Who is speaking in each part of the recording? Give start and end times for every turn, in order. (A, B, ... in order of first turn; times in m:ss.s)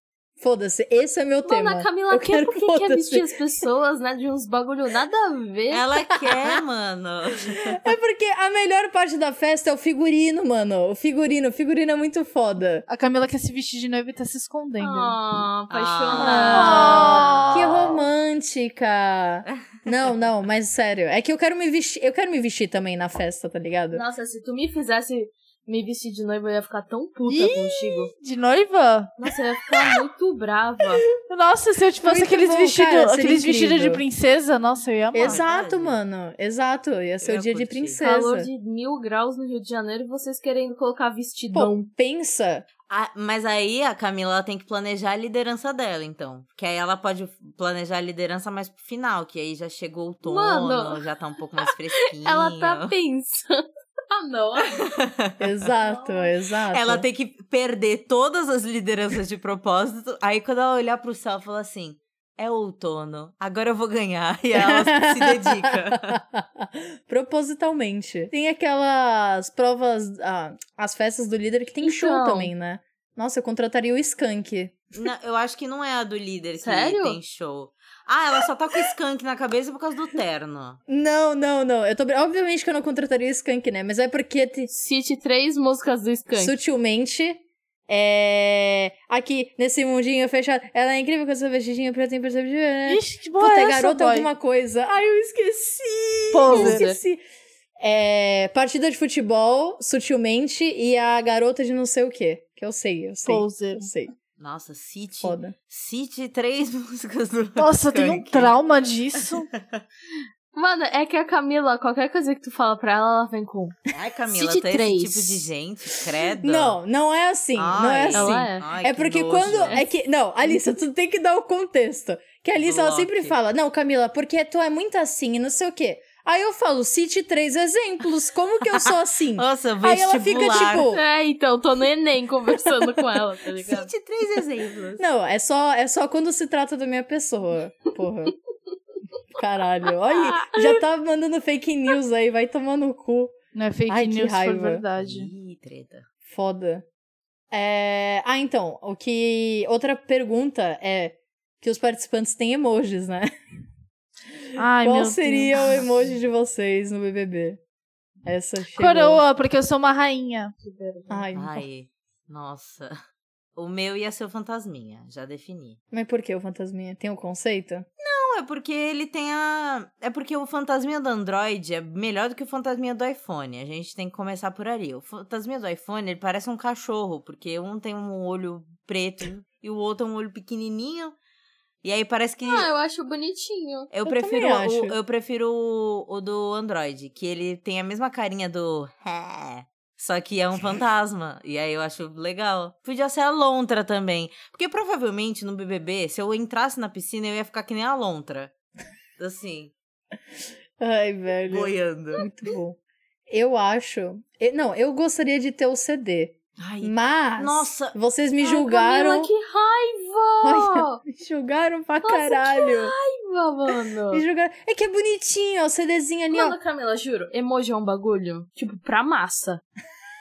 0:00.4-0:03.6 A
0:01.4-0:05.8 B
0:05.7-0:07.9 C
0:06.2-0:06.5 A
0:07.6-0:12.9 A
0:12.9-0:15.1 D
0:14.8-0:17.2 B
0:15.7-0:18.0 C
0:16.2-0:24.0 A
0:16.5-0:17.6 D
0:23.9-0:28.1 B
0:27.3-0:29.1 D
0:29.2-0:31.0 B
0:31.3-0:35.4 D
0:32.0-0:34.0 A
0:35.1-0:38.5 A
0:35.2-0:36.0 C
0:37.2-0:38.0 C
0:38.0-0:41.8 B
0:41.5-0:42.7 A
0:42.9-0:52.9 C
0:50.2-0:51.0 B
0:52.2-0:54.8 B
0:54.8-0:55.4 C
0:55.4-0:57.1 A
0:55.8-0:56.3 B
0:56.7-1:06.2 C
1:04.5-1:14.8 A
1:11.8-1:12.5 B
1:14.9-1:20.8 C
1:16.6-1:17.2 B
1:20.9-1:24.7 A
1:24.7-1:26.5 B
1:26.3-1:37.2 A
1:32.9-1:34.3 D
1:36.3-1:36.8 D
1:36.5-1:37.0 B
1:37.8-1:44.1 A
1:43.2-1:43.9 D
1:44.4-1:48.6 C
1:45.2-1:45.5 A
1:47.6-1:49.5 D
1:50.5-1:53.8 B
1:53.9-1:56.8 C
1:54.3-1:55.4 B
1:56.4-2:11.0 A
1:57.6-1:59.8 C
1:58.1-1:58.6 B
2:02.6-2:03.4 C
2:08.8-2:10.9 C
2:10.9-2:13.9 B
2:13.6-2:15.0 C
2:15.0-2:18.3 A
2:19.4-2:23.3 A
2:20.2-2:20.7 B
2:23.5-2:25.3 D
2:23.9-2:24.8 A
2:25.0-2:26.0 C
2:26.3-2:26.8 A
2:27.5-2:33.3 A
2:34.6-2:35.8 D
2:34.7-2:37.6 A
2:38.2-2:39.2 A
2:38.8-2:40.5 D
2:40.6-2:41.3 B
2:41.1-2:41.6 A
2:41.3-2:43.0 C
2:43.6-2:45.8 C
2:45.9-2:47.9 A
2:48.0-3:01.2 C
3:01.8-3:02.7 C
3:02.4-3:03.9 B
3:03.9-3:18.5 C
3:04.0-3:05.0 A
3:19.2-3:19.7 C
3:20.8-3:22.8 A
3:21.5-3:22.2 C
3:23.3-3:29.3 A
3:26.6-3:28.0 C
3:28.4-3:31.0 B
3:30.4-3:32.9 A
3:32.0-3:34.2 B
3:34.1-3:36.6 A
3:36.3-3:39.6 B